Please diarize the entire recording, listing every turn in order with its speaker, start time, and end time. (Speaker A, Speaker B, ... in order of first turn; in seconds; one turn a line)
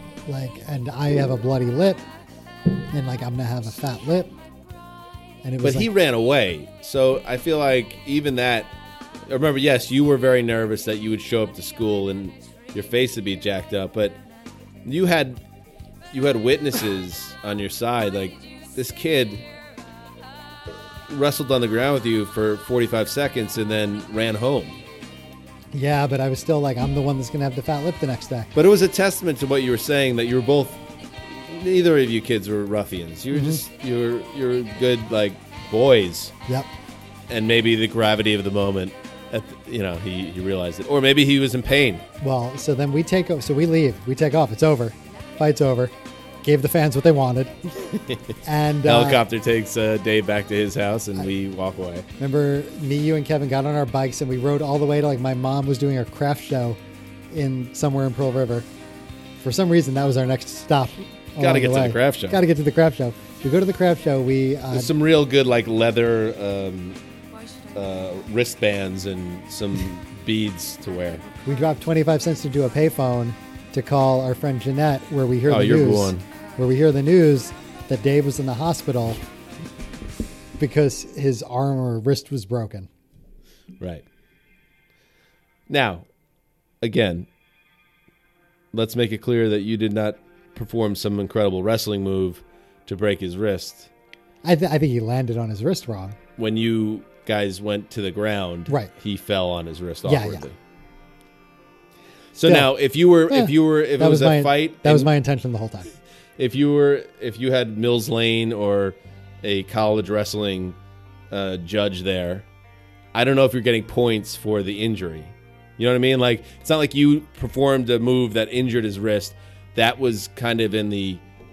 Speaker A: 0.2-2.0
Speaker A: 2.9-4.3
Speaker A: 5.4-5.9
Speaker B: 5.6-8.7
Speaker B: 9.3-14.2
Speaker B: 14.8-15.4
Speaker B: 16.1-19.4
Speaker B: 21.1-24.8
Speaker A: 25.7-28.5
Speaker B: 28.5-36.3
Speaker A: 33.3-33.6
Speaker B: 37.3-42.0
Speaker A: 42.2-47.7
Speaker B: 48.0-48.3
Speaker A: 48.4-49.2
Speaker B: 48.8-52.1
Speaker A: 52.2-56.8
Speaker A: 57.3-58.7
Speaker A: 59.4-64.9
Speaker B: 61.4-62.4
Speaker B: 64.7-67.0
Speaker B: 67.7-71.2
Speaker A: 71.4-79.2
Speaker B: 75.5-76.2
Speaker A: 80.6-82.9
Speaker B: 83.8-84.0
Speaker B: 85.7-86.0
Speaker B: 86.8-87.3
Speaker B: 88.7-93.9
Speaker A: 94.4-96.2
Speaker B: 96.4-100.6
Speaker A: 100.0-100.4
Speaker B: 102.3-105.1
Speaker A: 102.4-102.7
Speaker A: 103.3-105.9
Speaker B: 106.4-110.8
Speaker B: 111.3-112.5
Speaker B: 113.1-121.2